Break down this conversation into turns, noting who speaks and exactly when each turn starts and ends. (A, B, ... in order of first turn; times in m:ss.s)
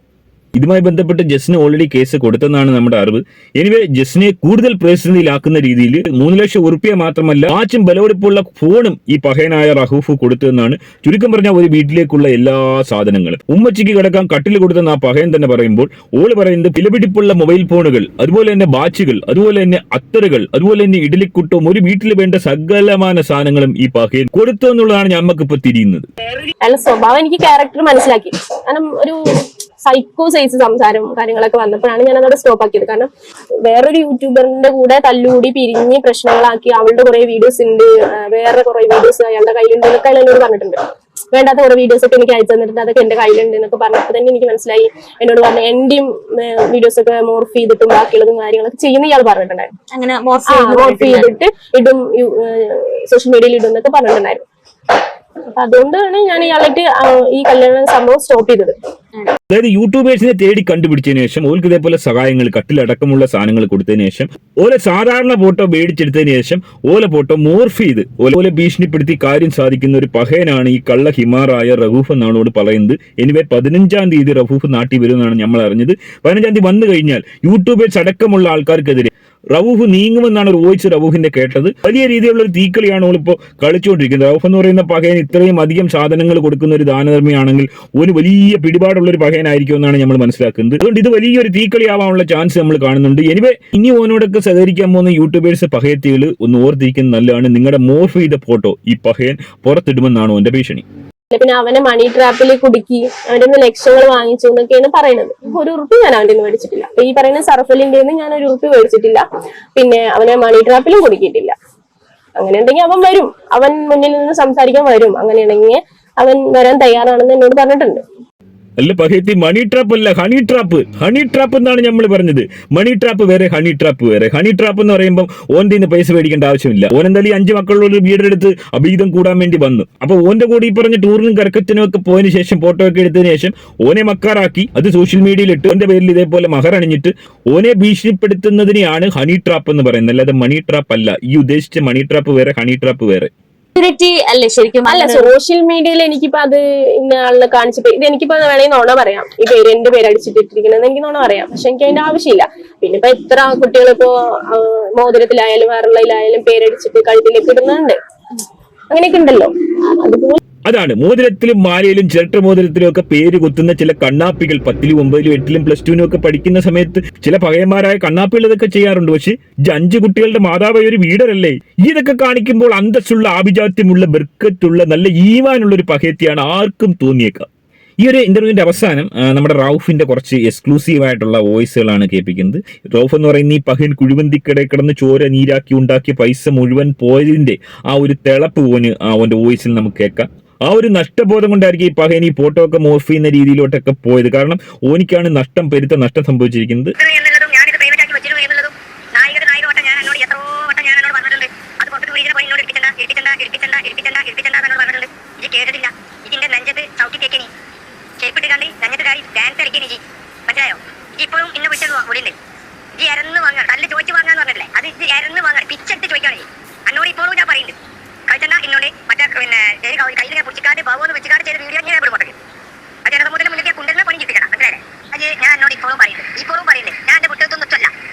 0:00.6-0:26.1 A
0:26.6-0:29.2 B
0:29.8-0:33.1 B
0:33.6-0:40.8 B
0:41.3-0:49.7 B
0:49.9-0:51.3 C
0:50.4-0:54.4 B
0:55.5-0:58.7 B
0:59.5-1:40.8 A
1:41.3-1:49.2 B
1:49.7-1:51.5 B
1:52.4-1:58.0 B
1:58.8-2:23.3 A
2:23.7-2:25.3 C
2:24.8-2:38.0 B
2:38.9-2:40.4 B
2:40.6-2:57.5 A
2:58.0-3:16.9 A
3:17.0-3:27.5 D
3:28.2-3:32.4 D
3:33.0-3:37.8 D
3:38.3-3:42.4 D
3:43.0-3:47.9 D